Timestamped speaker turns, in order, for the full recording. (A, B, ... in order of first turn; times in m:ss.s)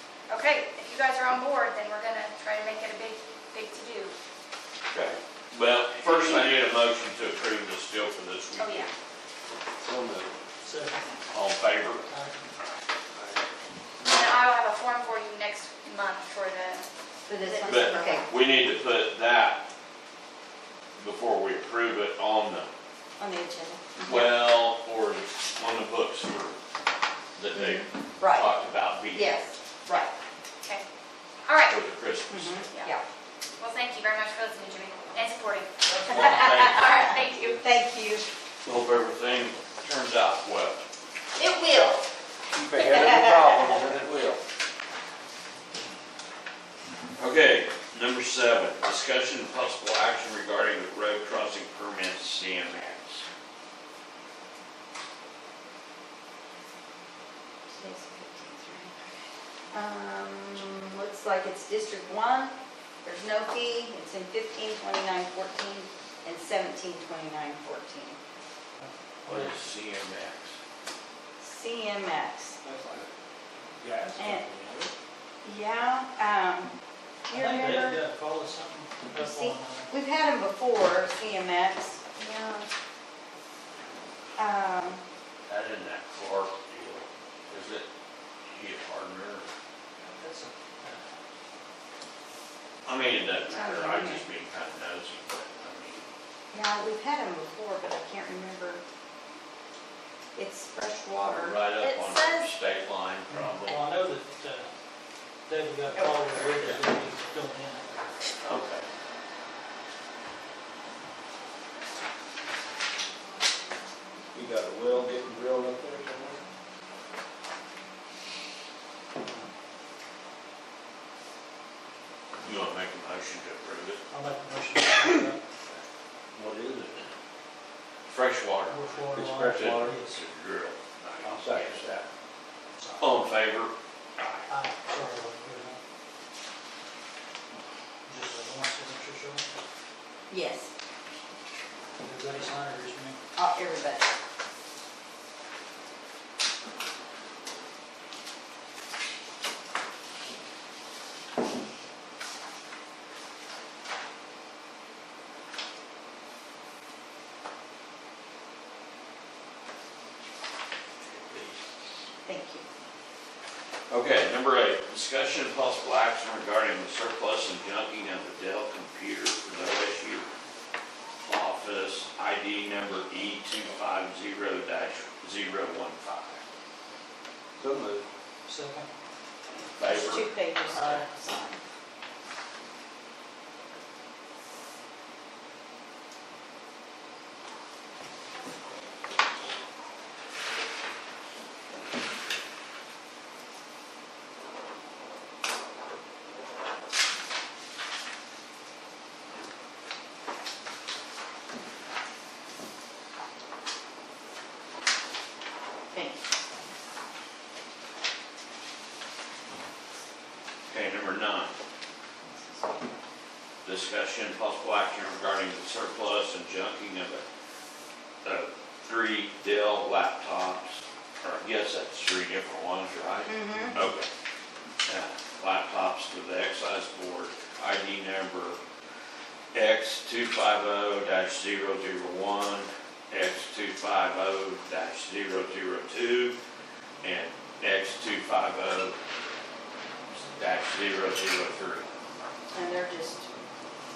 0:00.3-0:04.2 A
0:04.9-0:08.9 B
0:06.0-0:06.4 A
0:08.6-0:08.9 A
0:09.8-0:10.3 C
0:10.6-0:11.0 D
0:11.3-0:12.1 B
0:12.1-0:12.4 D
0:14.0-0:16.9 A
0:17.3-0:18.3 E
0:17.4-0:18.3 A
0:17.7-0:19.6 B
0:21.0-0:22.7 B
0:23.2-0:24.4 E
0:24.0-0:26.6 B
0:27.4-0:29.4 B
0:27.5-0:28.5 E
0:29.1-0:30.1 E
0:31.4-0:31.8 A
0:31.7-0:32.6 B
0:32.3-0:33.0 E
0:33.6-0:37.6 A
0:35.9-0:37.2 B
0:36.1-0:37.0 E
0:37.6-0:38.3 E
0:38.6-0:40.8 B
0:41.4-0:42.0 E
0:42.5-0:44.4 C
0:42.8-0:43.7 E
0:47.2-0:53.2 B
0:57.7-0:59.2 E
0:59.7-1:08.2 E
1:08.8-1:09.6 D
1:09.2-1:10.6 B
1:11.4-1:12.6 E
1:12.6-1:13.1 C
1:13.8-1:14.9 C
1:14.2-1:14.4 E
1:15.4-1:16.7 E
1:17.3-1:18.0 E
1:17.3-1:19.9 D
1:19.1-1:22.7 E
1:24.4-1:25.0 E
1:25.5-1:27.9 B
1:28.4-1:29.5 B
1:30.0-1:31.2 D
1:32.8-1:36.0 B
1:33.4-1:34.2 E
1:36.5-1:38.8 E
1:40.3-1:42.5 E
1:41.3-1:43.8 B
1:43.3-1:44.7 D
1:45.5-1:47.9 D
1:48.4-1:48.9 B
1:54.3-1:56.4 C
2:02.4-2:04.0 B
2:04.1-2:05.4 D
2:06.3-2:07.1 C
2:08.1-2:08.9 B
2:08.7-2:10.2 D
2:09.1-2:09.9 C
2:09.6-2:11.8 B
2:11.2-2:12.0 C
2:12.8-2:13.2 D
2:13.0-2:14.4 B
2:14.5-2:15.8 D
2:18.0-2:19.4 D
2:20.3-2:20.7 E
2:22.0-2:23.2 D
2:23.4-2:24.1 E
2:41.0-2:41.6 B
2:42.2-2:42.6 E
2:43.9-2:50.2 B
2:51.2-2:56.4 B
2:57.6-2:58.0 C
2:58.4-2:58.9 D
2:59.7-3:00.3 B
2:59.8-3:01.6 E
3:00.7-3:01.0 D
3:25.9-3:26.2 E
3:30.7-3:31.5 B
3:32.5-3:32.8 E
3:33.6-3:37.2 B
3:38.2-3:44.1 B
3:43.3-3:43.8 E
3:44.8-3:48.6 B
3:49.5-3:56.4 B
3:57.0-3:59.0 B
4:00.1-4:01.9 B
4:02.5-4:03.3 E